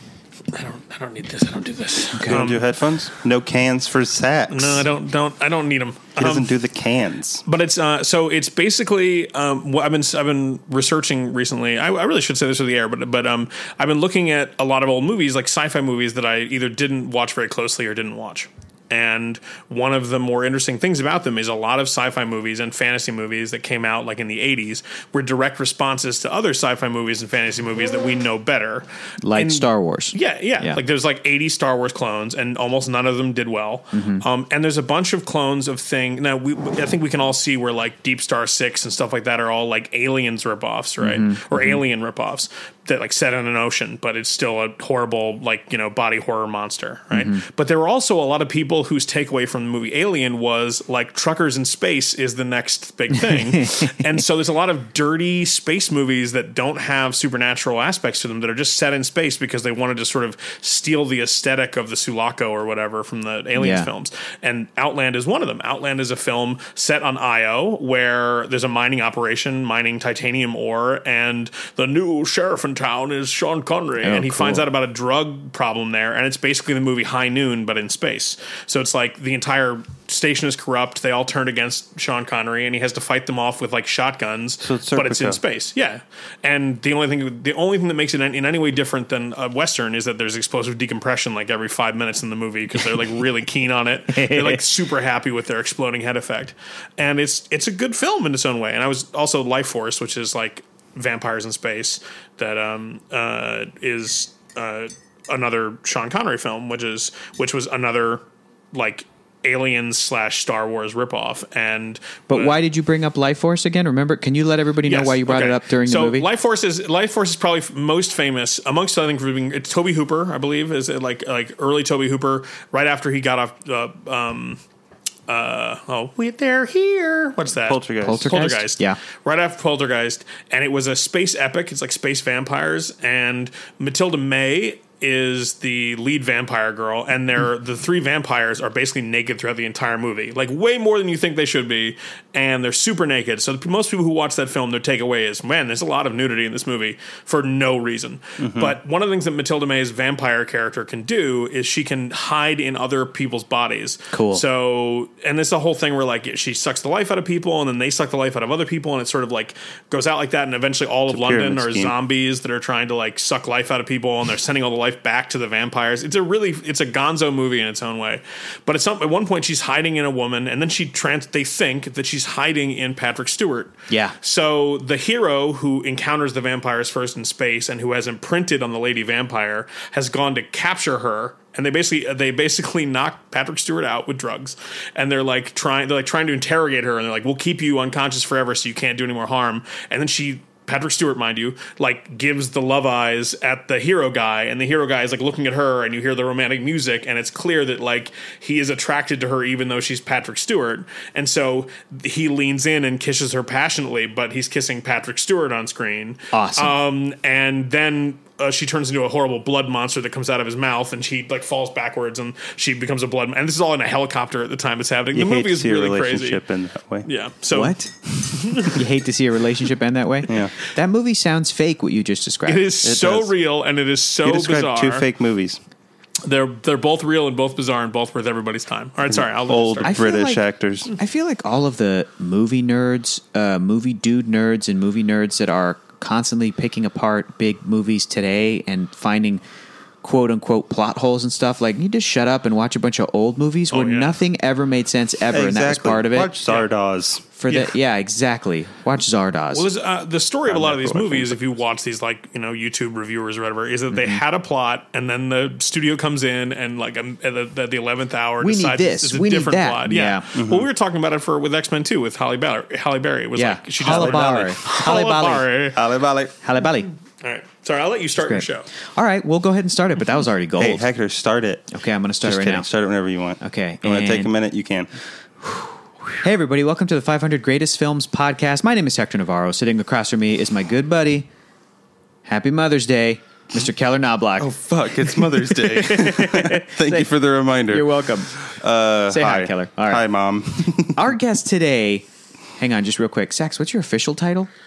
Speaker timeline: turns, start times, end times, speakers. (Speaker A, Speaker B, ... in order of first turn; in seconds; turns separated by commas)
Speaker A: 0.5-2.8, Speaker B: 2.1-2.5, Speaker C: 2.3-4.8, Speaker A: 4.5-6.5, Speaker C: 6.2-7.4, Speaker A: 7.4-112.6, Speaker B: 29.2-30.8, Speaker B: 33.9-34.2, Speaker B: 41.0-41.8, Speaker B: 47.1-47.4, Speaker B: 53.2-54.2, Speaker B: 63.5-63.9, Speaker B: 74.0-74.7, Speaker C: 84.6-85.4, Speaker B: 94.1-94.6, Speaker B: 112.3-116.3, Speaker A: 114.8-124.6, Speaker A: 125.3-216.4, Speaker C: 127.7-128.4, Speaker B: 128.0-129.0, Speaker C: 148.4-148.7, Speaker B: 154.1-154.4, Speaker C: 161.1-161.9, Speaker B: 173.9-174.1, Speaker B: 206.3-206.8, Speaker C: 215.1-217.1, Speaker A: 217.0-218.8, Speaker B: 217.5-217.9, Speaker B: 218.5-222.7, Speaker C: 220.3-220.5, Speaker A: 222.4-225.0, Speaker C: 222.8-223.3, Speaker C: 224.2-225.6, Speaker A: 226.2-230.0, Speaker C: 229.1-230.9, Speaker B: 229.8-239.4, Speaker B: 240.0-246.3, Speaker A: 243.7-244.2, Speaker C: 245.3-247.2, Speaker B: 247.4-249.7, Speaker A: 249.5-265.8, Speaker C: 250.7-250.9, Speaker B: 250.8-251.2, Speaker B: 253.9-254.2, Speaker B: 258.4-260.3, Speaker C: 260.4-260.6, Speaker B: 263.3-265.5, Speaker C: 263.8-264.5, Speaker C: 265.7-266.3, Speaker B: 266.4-266.9, Speaker A: 267.2-268.7, Speaker B: 268.2-270.9, Speaker C: 270.6-271.7, Speaker B: 271.7-272.7, Speaker C: 272.2-274.9, Speaker B: 273.4-274.3, Speaker B: 276.2-281.3, Speaker B: 282.2-287.1, Speaker C: 284.4-291.0, Speaker B: 287.7-288.3, Speaker B: 289.1-290.0, Speaker B: 290.9-292.1, Speaker B: 292.6-294.5